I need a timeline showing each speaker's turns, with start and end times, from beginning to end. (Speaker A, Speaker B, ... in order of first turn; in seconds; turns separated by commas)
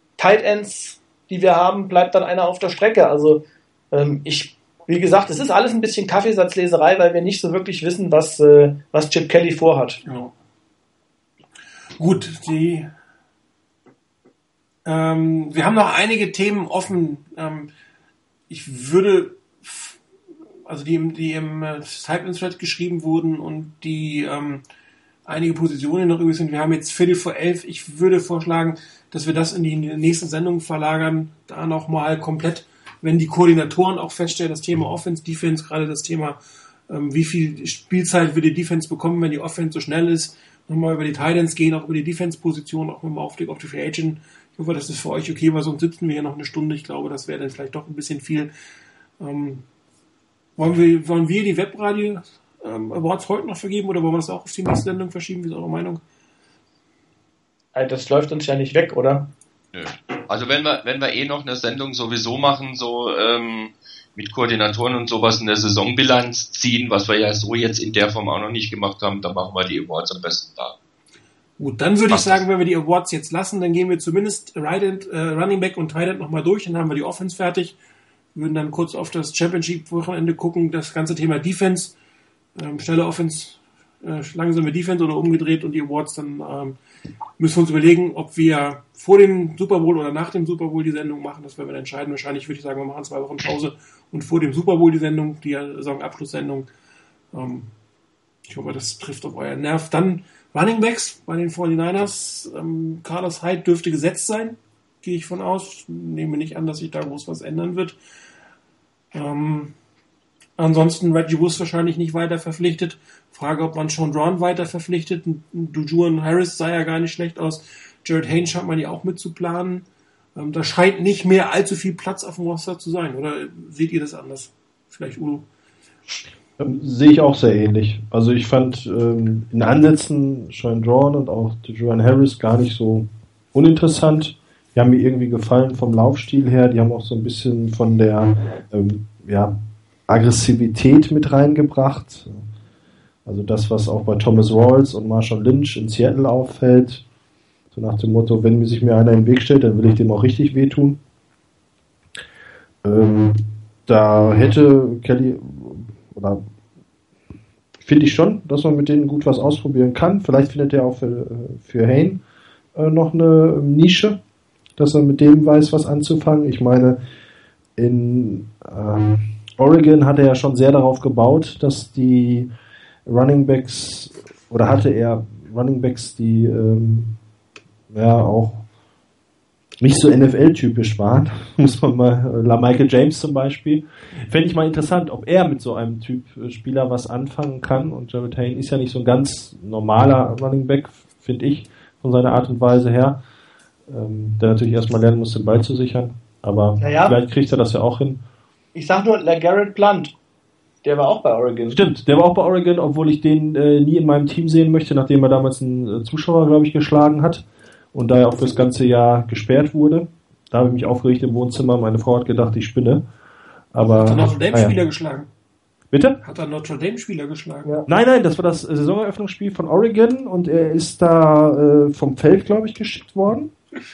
Speaker A: 0.2-10.0, Speaker B: 10.1-10.3, Speaker B: 12.0-12.9, Speaker B: 14.8-17.7, Speaker B: 18.5-20.0, Speaker B: 20.7-24.6, Speaker B: 25.3-48.5, Speaker B: 49.2-49.7, Speaker B: 50.6-56.0, Speaker A: 57.8-59.3, Speaker C: 59.7-70.8, Speaker B: 71.6-77.8, Speaker C: 72.1-72.4, Speaker B: 78.3-82.0, Speaker B: 82.6-86.8, Speaker B: 87.4-96.7, Speaker B: 97.3-97.7, Speaker B: 98.5-108.0, Speaker B: 109.1-109.8, Speaker B: 110.6-125.5, Speaker D: 126.6-139.5, Speaker D: 140.1-142.4, Speaker D: 143.3-147.0, Speaker D: 147.7-151.0, Speaker D: 152.8-156.4, Speaker D: 157.8-162.2, Speaker D: 162.8-164.2, Speaker D: 164.8-167.0, Speaker D: 167.8-172.5, Speaker D: 173.1-177.2, Speaker D: 177.9-178.6, Speaker D: 179.8-193.2, Speaker D: 193.9-198.2, Speaker A: 196.8-197.2, Speaker A: 198.7-200.1, Speaker A: 200.8-201.8, Speaker D: 201.7-213.0, Speaker D: 213.7-214.8, Speaker B: 213.9-215.3, Speaker D: 215.9-216.2, Speaker B: 216.2-217.7, Speaker D: 217.9-223.5